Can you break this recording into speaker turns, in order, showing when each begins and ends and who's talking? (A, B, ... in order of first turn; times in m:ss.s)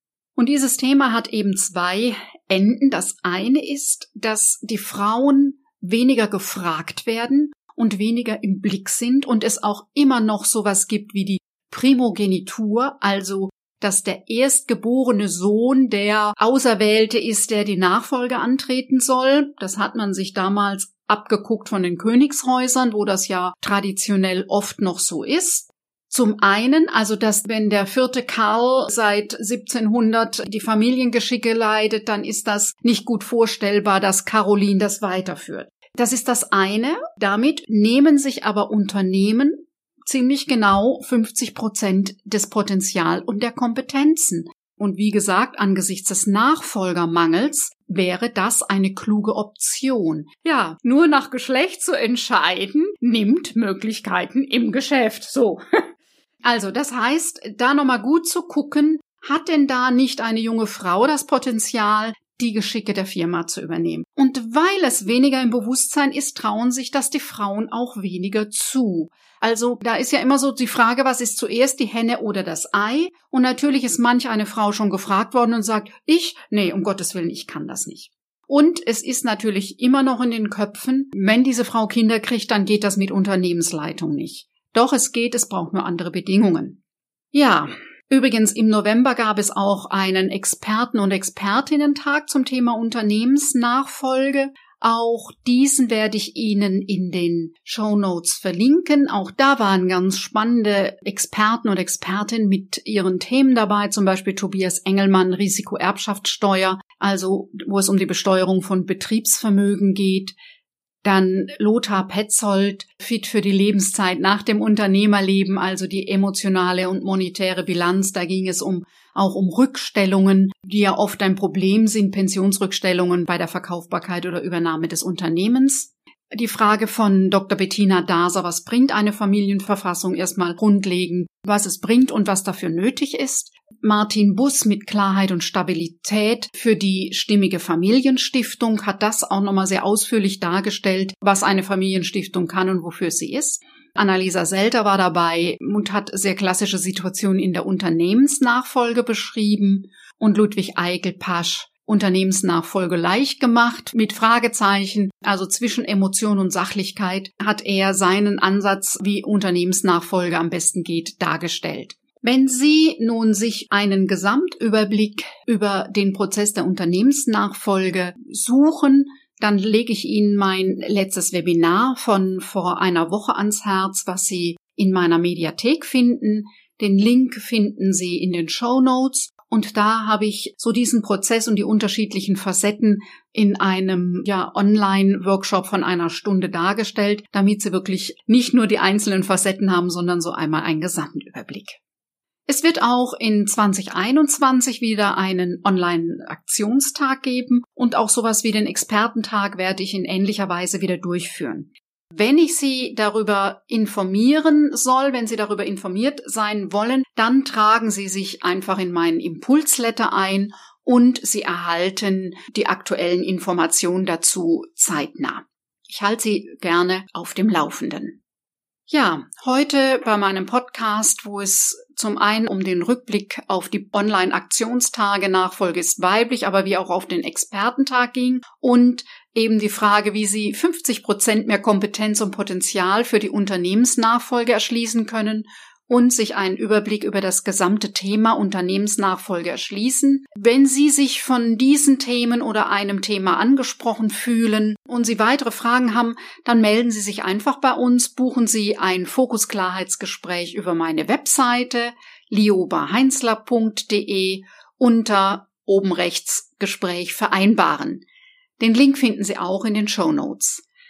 0:00.4-0:55.6 A
0:56.4-1:26.8 A
1:27.3-1:50.4 A
1:51.0-3:11.8 A
3:12.5-3:38.2 A
3:38.9-4:18.0 A
4:18.6-4:20.6 A